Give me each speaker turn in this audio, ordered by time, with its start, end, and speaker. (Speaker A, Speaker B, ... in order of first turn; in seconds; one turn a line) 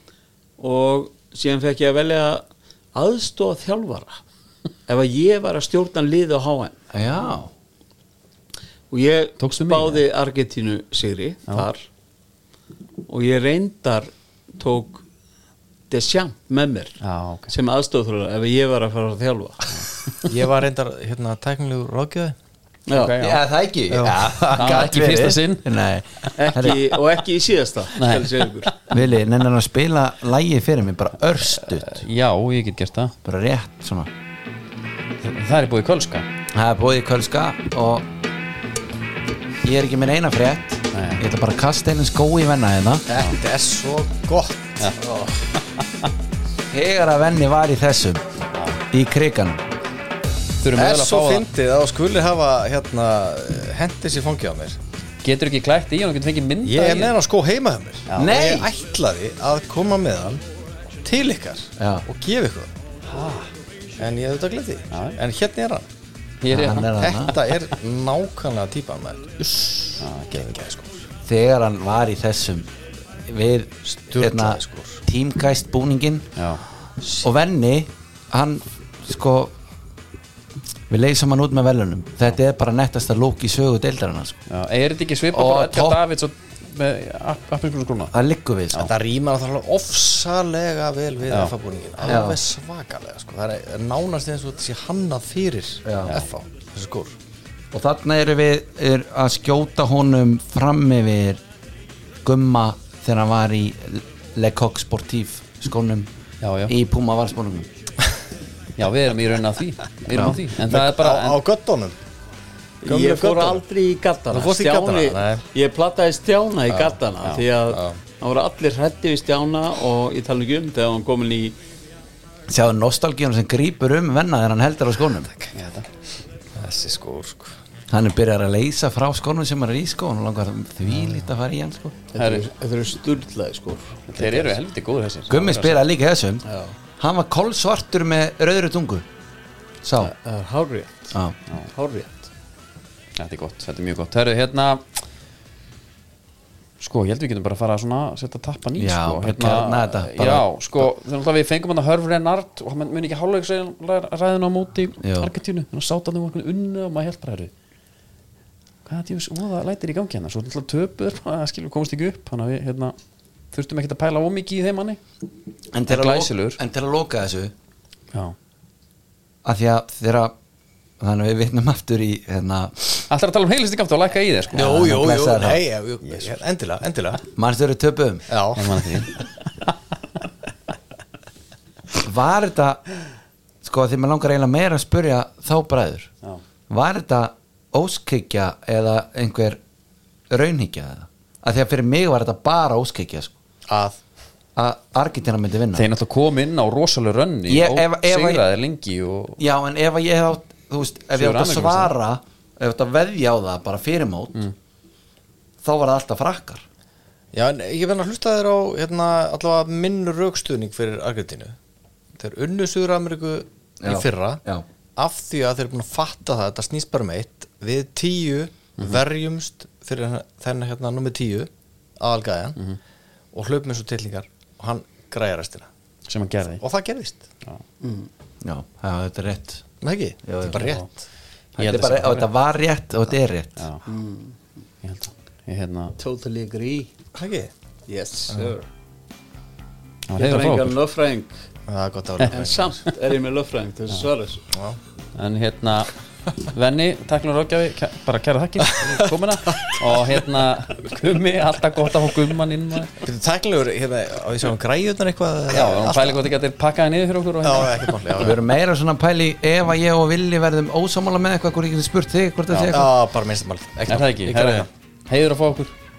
Speaker A: 0.6-2.4
Speaker A: 2.9-4.2
Speaker A: 4.9-6.8
Speaker B: 6.9-7.5
Speaker A: 8.9-11.8
Speaker C: 9.4-10.0
Speaker A: 13.1-15.0
Speaker A: 15.9-19.8
Speaker C: 17.0-17.5
Speaker D: 20.2-22.4
Speaker A: 22.9-23.2
Speaker C: 22.9-23.4
Speaker B: 23.2-26.8
Speaker D: 23.9-24.3
Speaker C: 24.5-25.6
Speaker A: 26.4-28.8
Speaker C: 27.9-28.4
Speaker B: 28.9-32.0
Speaker C: 31.6-33.1
Speaker B: 33.2-34.1
Speaker C: 35.2-36.3
Speaker B: 36.5-38.1
Speaker B: 39.6-43.0
Speaker C: 40.9-41.2
Speaker D: 43.1-44.9
Speaker C: 45.5-46.1
Speaker B: 46.7-48.2
Speaker C: 48.5-48.8
Speaker B: 48.9-49.6
Speaker C: 50.6-51.5
Speaker D: 50.7-54.8
Speaker C: 55.2-57.1
Speaker D: 56.6-60.4
Speaker C: 58.1-58.3
Speaker B: 58.1-58.7
Speaker D: 61.0-62.7
Speaker B: 61.8-62.0
Speaker C: 63.1-63.5
Speaker D: 64.0-65.8
Speaker C: 64.9-65.2
Speaker C: 66.4-67.3
Speaker B: 66.5-67.4
Speaker D: 67.0-71.1
Speaker C: 70.0-70.5
Speaker B: 71.2-72.7
Speaker B: 73.2-76.3
Speaker D: 73.9-75.0
Speaker C: 76.3-76.6
Speaker B: 77.1-79.5
Speaker B: 80.9-84.4
Speaker C: 84.5-88.1
Speaker B: 85.3-86.0
Speaker B: 88.1-88.9
Speaker D: 88.9-97.1
Speaker C: 91.3-91.5
Speaker B: 92.0-92.4
Speaker B: 95.8-96.2
Speaker B: 97.7-101.4
Speaker B: 102.2-106.1
Speaker C: 106.4-106.7
Speaker B: 106.7-107.7
Speaker C: 108.8-111.4
Speaker B: 110.1-110.3
Speaker D: 110.6-111.9
Speaker A: 112.8-121.5
Speaker D: 112.8-113.6
Speaker D: 114.3-115.4
Speaker D: 116.7-117.0
Speaker D: 117.7-118.0
Speaker B: 122.5-125.3
Speaker C: 125.5-125.8
Speaker D: 126.6-127.5
Speaker B: 127.9-132.0
Speaker A: 132.1-134.6
Speaker C: 132.2-132.5
Speaker C: 134.1-135.8
Speaker B: 135.3-136.4
Speaker A: 136.5-136.7
Speaker B: 137.0-139.0
Speaker B: 139.8-140.1
Speaker A: 140.0-141.2
Speaker A: 141.7-142.2
Speaker C: 143.2-144.8
Speaker C: 146.8-157.5
Speaker B: 148.8-150.5
Speaker B: 155.0-155.3
Speaker C: 158.8-162.9
Speaker C: 163.5-165.0
Speaker B: 165.7-167.5
Speaker C: 165.9-166.6
Speaker B: 169.4-170.3
Speaker B: 171.0-173.1
Speaker C: 173.1-174.8
Speaker D: 174.5-177.2
Speaker B: 174.5-175.6
Speaker B: 177.3-178.3
Speaker D: 178.3-179.0
Speaker C: 178.5-179.7
Speaker B: 181.9-182.8
Speaker B: 183.6-186.1
Speaker B: 186.7-189.6
Speaker B: 190.3-193.3
Speaker D: 193.7-194.0
Speaker B: 194.6-195.9
Speaker C: 195.7-199.4
Speaker B: 197.5-198.4
Speaker B: 199.4-204.4
Speaker C: 201.1-201.9
Speaker B: 205.6-206.6
Speaker D: 207.3-211.6
Speaker D: 212.2-214.4
Speaker B: 213.8-214.6
Speaker D: 214.9-221.5
Speaker D: 222.0-222.6
Speaker D: 223.3-225.7
Speaker C: 226.1-226.6
Speaker D: 226.5-227.2
Speaker A: 227.8-228.1
Speaker B: 228.4-229.6
Speaker D: 229.8-231.0
Speaker B: 230.2-230.7
Speaker C: 230.6-230.9
Speaker C: 231.6-232.3
Speaker B: 231.6-233.7
Speaker C: 233.6-233.8
Speaker A: 233.8-234.3
Speaker C: 234.8-235.9
Speaker A: 236.0-236.9
Speaker D: 237.1-237.5
Speaker A: 237.9-238.7
Speaker C: 240.1-240.8
Speaker A: 240.1-241.3
Speaker D: 241.7-242.8
Speaker A: 242.3-244.4
Speaker D: 244.5-244.8
Speaker C: 245.2-252.9
Speaker D: 253.0-256.2
Speaker C: 255.5-257.9
Speaker D: 257.4-258.4
Speaker B: 258.2-262.9
Speaker C: 262.5-262.8
Speaker D: 262.7-264.7
Speaker C: 263.9-265.7